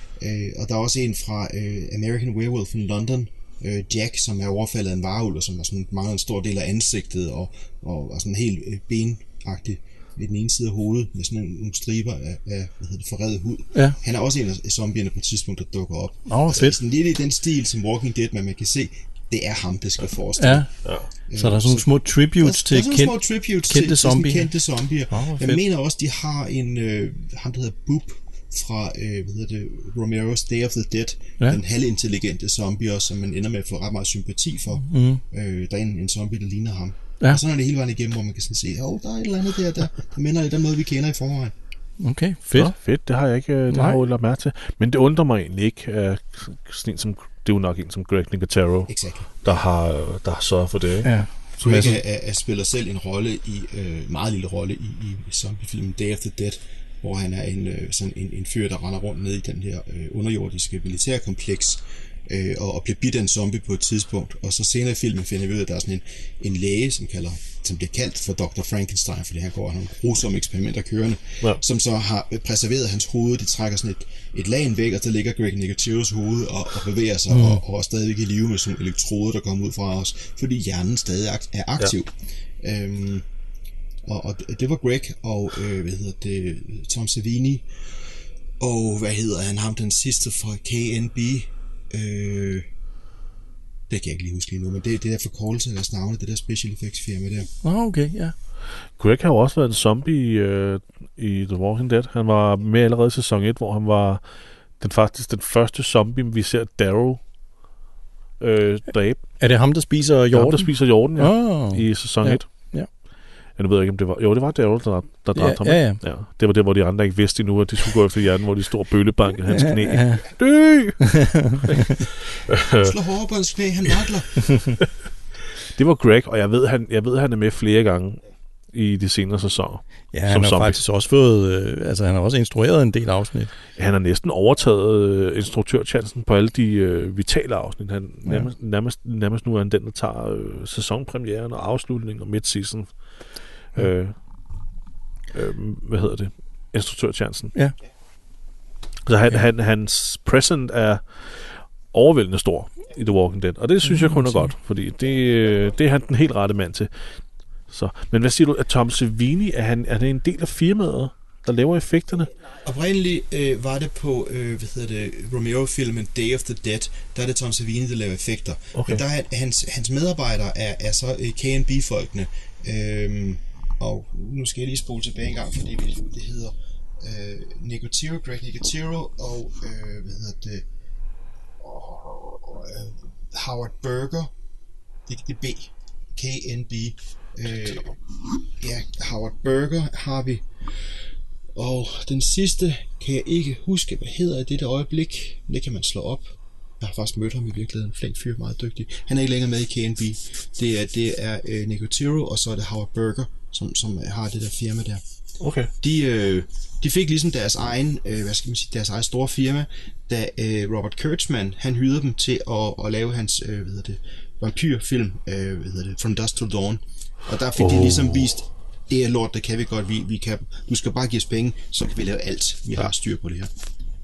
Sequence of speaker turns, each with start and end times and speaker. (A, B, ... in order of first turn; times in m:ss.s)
0:00.2-0:20.7 A
0:16.3-0:16.8 B
0:20.4-0:20.7 B
0:20.8-0:21.1 C
0:21.3-0:41.5 A
0:21.4-0:23.1 B
0:23.7-0:24.5 B
0:25.1-0:25.6 B
0:34.9-0:35.2 B
0:42.0-0:42.7 B
0:42.6-0:48.9 C
0:43.7-0:44.0 B
0:48.9-0:49.6 A
0:49.4-0:51.1 C
0:51.0-0:52.0 B
0:51.6-1:23.2 A
1:17.3-1:17.6 B
1:24.1-1:27.7 A
1:28.6-1:32.7 A
1:33.9-1:37.5 A
1:37.6-1:38.3 B
1:39.0-1:44.2 C
1:44.8-1:47.2 C
1:48.4-1:49.2 C
1:49.4-1:52.9 B
1:50.3-1:52.5 C
1:53.6-2:01.1 C
1:55.4-1:56.0 B
1:59.5-2:00.2 B
2:01.0-2:02.0 B
2:01.6-2:02.9 C
2:02.7-2:04.8 A
2:05.6-2:10.8 C
2:10.1-2:13.5 B
2:13.8-2:22.9 C
2:23.7-2:24.2 C
2:25.3-2:27.5 C
2:29.1-2:36.9 C
2:33.8-2:34.5 B
2:37.7-2:42.3 C
2:42.6-3:00.6 A
2:48.7-2:49.0 C
3:01.6-3:04.3 A
3:05.1-3:08.0 A
3:08.6-3:11.0 A
3:11.6-3:25.0 A
3:25.4-3:25.7 C
3:25.8-3:43.5 A
3:37.6-3:38.3 C